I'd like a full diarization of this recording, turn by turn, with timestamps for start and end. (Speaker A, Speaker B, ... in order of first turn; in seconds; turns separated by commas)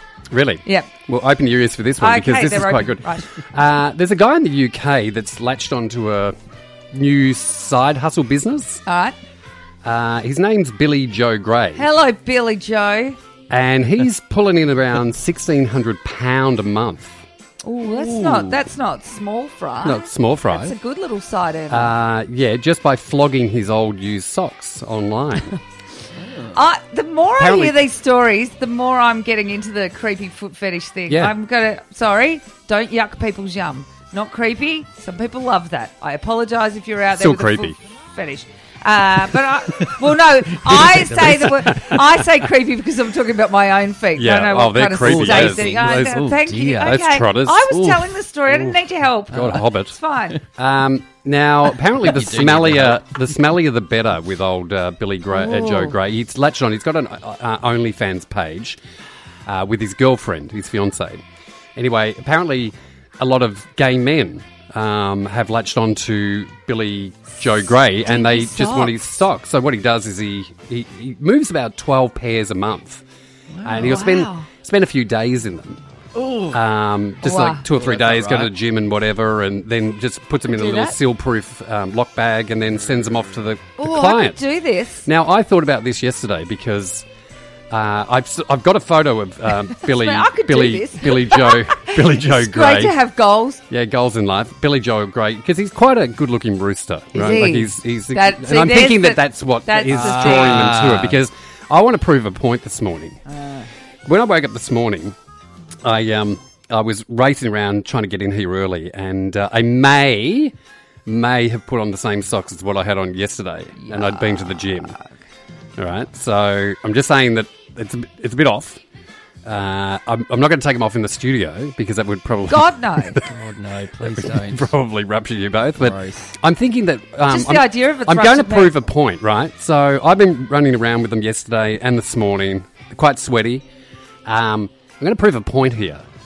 Speaker A: 0.3-6.3, Speaker B: 0.6-0.9, Speaker B: 2.0-3.3, Speaker A: 6.9-8.8, Speaker B: 8.8-9.2, Speaker A: 9.8-11.8, Speaker B: 11.8-13.2, Speaker A: 13.5-17.2, Speaker B: 17.6-21.9, Speaker A: 18.0-18.5, Speaker A: 19.8-20.8, Speaker A: 21.7-25.6, Speaker C: 26.2-26.6, Speaker B: 26.5-50.4, Speaker A: 27.4-27.9, Speaker A: 31.1-31.3, Speaker A: 37.1-37.8, Speaker C: 39.7-40.0, Speaker C: 40.6-41.8, Speaker A: 44.1-47.8, Speaker C: 45.0-47.0, Speaker C: 47.7-48.1, Speaker A: 48.5-48.8, Speaker A: 49.3-58.8, Speaker C: 51.8-53.2, Speaker C: 55.4-55.9, Speaker A: 59.5-61.2, Speaker A: 61.7-73.0, Speaker B: 68.1-69.0, Speaker C: 73.5-74.0, Speaker A: 73.6-75.8, Speaker B: 73.8-74.5, Speaker C: 76.1-76.6, Speaker A: 76.5-84.5, Speaker B: 77.2-77.6, Speaker C: 77.7-78.5, Speaker B: 80.5-81.0, Speaker B: 83.8-85.1, Speaker A: 85.0-87.0, Speaker A: 87.7-93.0, Speaker B: 89.8-93.6, Speaker A: 93.7-103.2, Speaker B: 97.1-100.7, Speaker C: 99.9-101.2, Speaker A: 104.0-105.2, Speaker A: 105.8-110.5, Speaker A: 111.0-114.9, Speaker B: 113.8-114.9, Speaker A: 115.8-118.8, Speaker A: 119.4-123.3, Speaker B: 122.5-123.2, Speaker C: 123.2-124.7, Speaker A: 124.0-133.6, Speaker C: 125.8-126.3, Speaker B: 127.3-128.8, Speaker A: 134.2-136.0